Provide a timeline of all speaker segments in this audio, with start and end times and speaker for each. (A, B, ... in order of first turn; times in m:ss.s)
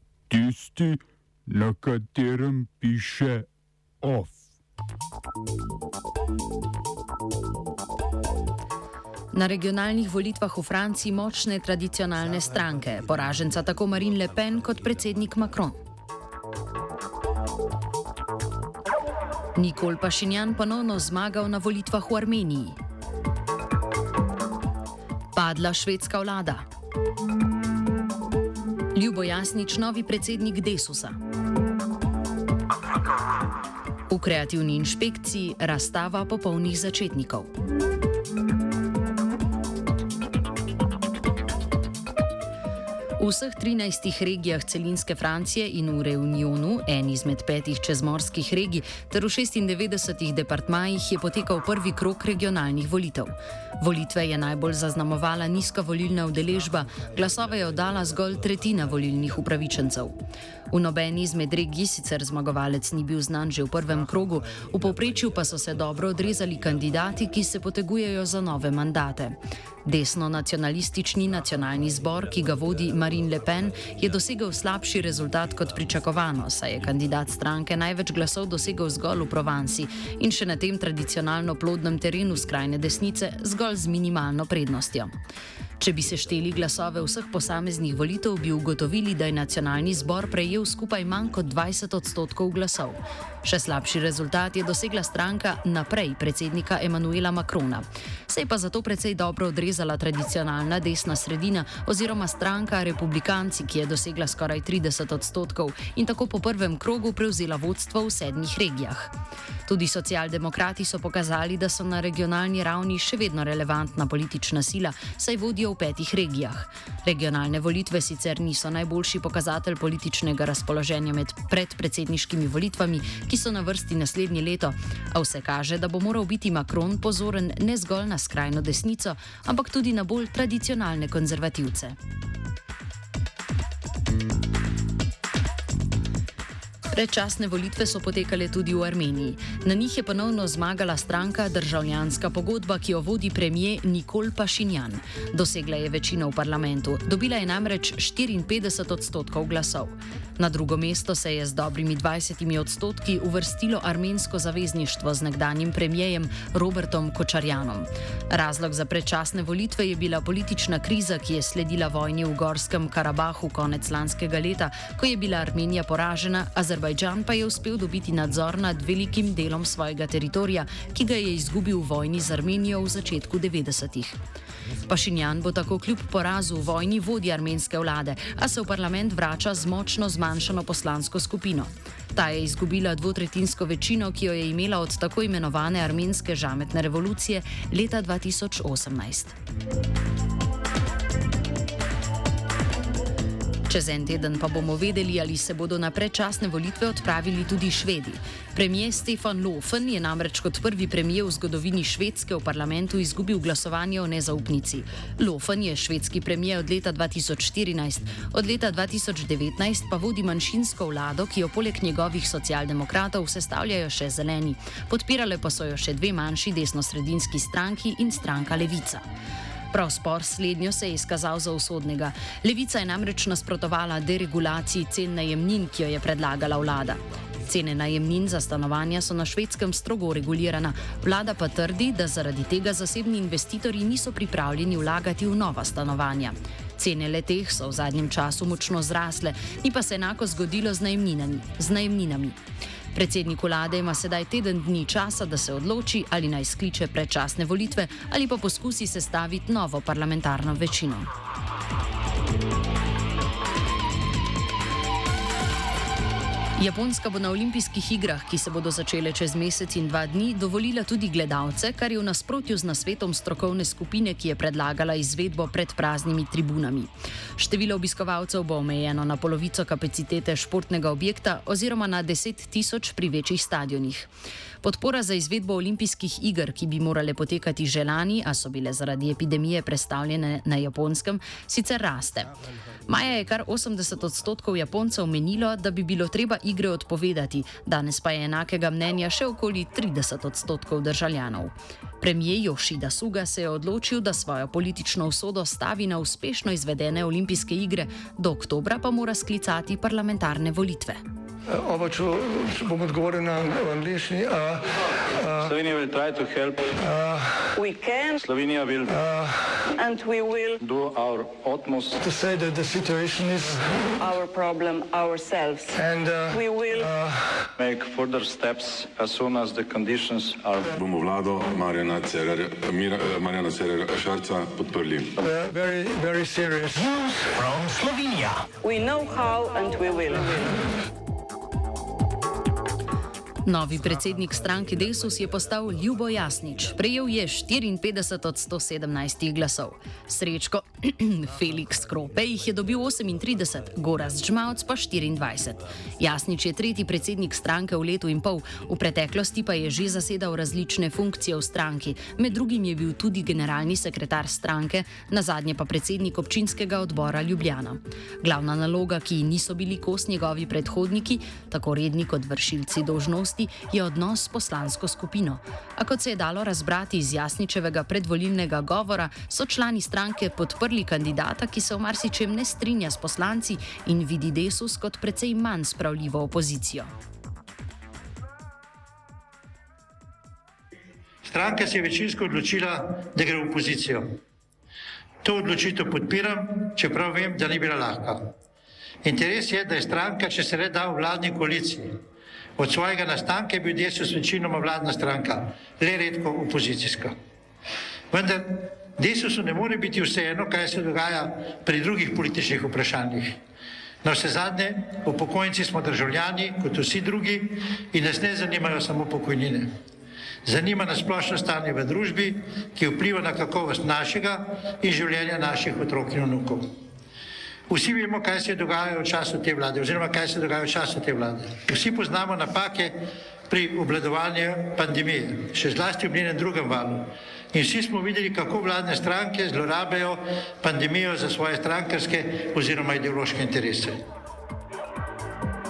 0:00.3-0:03.5 A
0:04.0-0:04.4 A
0:09.3-0:15.8 B
0:19.6-0:22.8 B
0:25.3-0:26.6 B
0:28.9-0:31.2 B
0:34.1-0:37.5 B
0:43.2-1:00.2 B
1:00.7-1:25.1 B
1:25.8-1:49.1 B
1:49.6-2:12.0 B
2:16.9-2:54.2 B
2:54.9-3:09.3 B
3:13.7-3:39.0 B
3:39.7-4:02.4 B
4:02.9-4:11.1 B
4:16.6-4:34.1 B
4:34.6-4:42.3 B
4:42.9-5:01.0 B
5:01.5-5:05.5 C
5:05.3-5:06.8 D
5:06.8-5:07.6 C
5:07.5-5:08.2 E
5:08.2-5:09.0 D
5:08.9-5:09.7 C
5:09.7-5:10.6 E
5:10.6-5:12.0 D
5:12.0-5:13.9 C
5:14.0-5:16.9 E
5:15.7-5:17.5 C
5:17.6-5:20.7 D
5:20.8-5:25.2 F
5:25.2-5:27.8 C
5:28.6-5:30.7 E
5:33.4-6:16.9 B
6:21.2-6:24.2 G
6:25.2-6:28.3 G
6:29.0-6:32.0 G
6:32.6-6:37.1 G
6:38.1-6:43.4 G
6:44.0-6:49.7 G
6:50.4-6:56.7 G
6:57.7-7:03.0 G
7:03.5-7:14.0 G